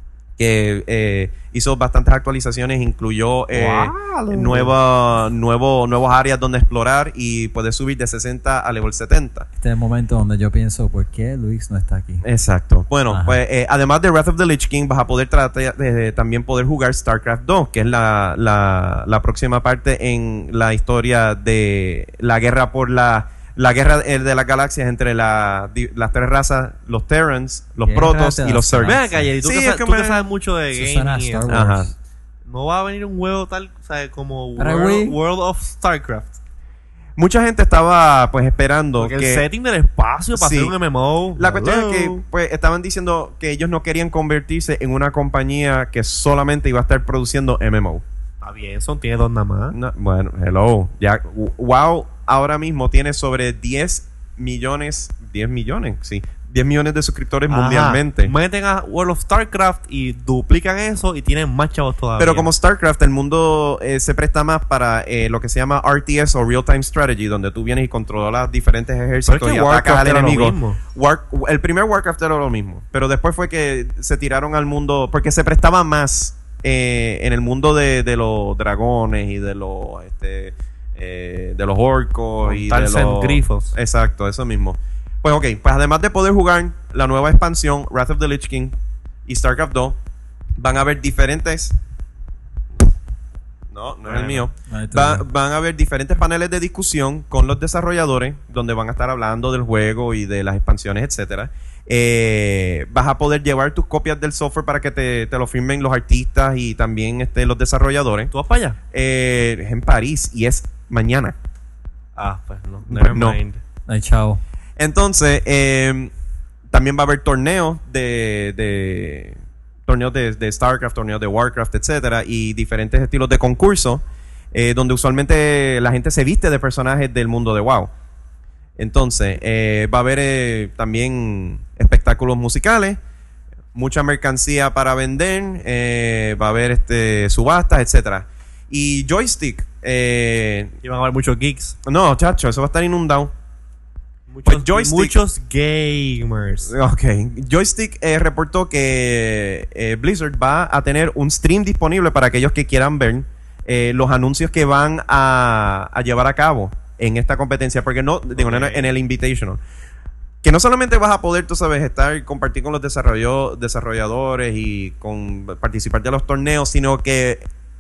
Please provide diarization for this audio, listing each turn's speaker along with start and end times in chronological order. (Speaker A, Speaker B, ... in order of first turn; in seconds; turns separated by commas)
Speaker A: 0.4-9.5, Speaker B: 3.5-4.7, Speaker C: 9.6-12.2, Speaker A: 12.2-30.3, Speaker C: 13.1-13.4, Speaker C: 27.8-29.3, Speaker B: 28.8-31.7, Speaker C: 30.7-31.9, Speaker A: 31.5-31.9, Speaker B: 32.5-36.4, Speaker C: 34.6-35.2, Speaker A: 37.2-39.5, Speaker B: 39.0-42.2, Speaker A: 40.3-40.8, Speaker A: 41.4-48.0, Speaker B: 48.4-49.8, Speaker A: 49.7-58.3, Speaker B: 57.5-62.5, Speaker A: 62.2-88.8, Speaker B: 69.3-70.8, Speaker B: 82.4-83.8, Speaker A: 89.3-90.0, Speaker A: 90.6-91.8, Speaker A: 93.7-108.3, Speaker B: 94.1-94.5, Speaker C: 94.6-95.2, Speaker B: 108.3-108.8, Speaker A: 108.9-111.4, Speaker B: 112.2-113.6, Speaker A: 112.9-113.4, Speaker C: 113.9-114.4, Speaker A: 114.8-116.1, Speaker A: 116.7-124.0, Speaker A: 124.5-127.9, Speaker A: 128.8-133.0, Speaker A: 133.8-140.7, Speaker B: 140.8-141.8, Speaker A: 141.9-143.3, Speaker B: 144.3-146.7, Speaker A: 144.4-145.2, Speaker A: 146.7-159.6, Speaker B: 158.3-158.9, Speaker A: 160.4-167.5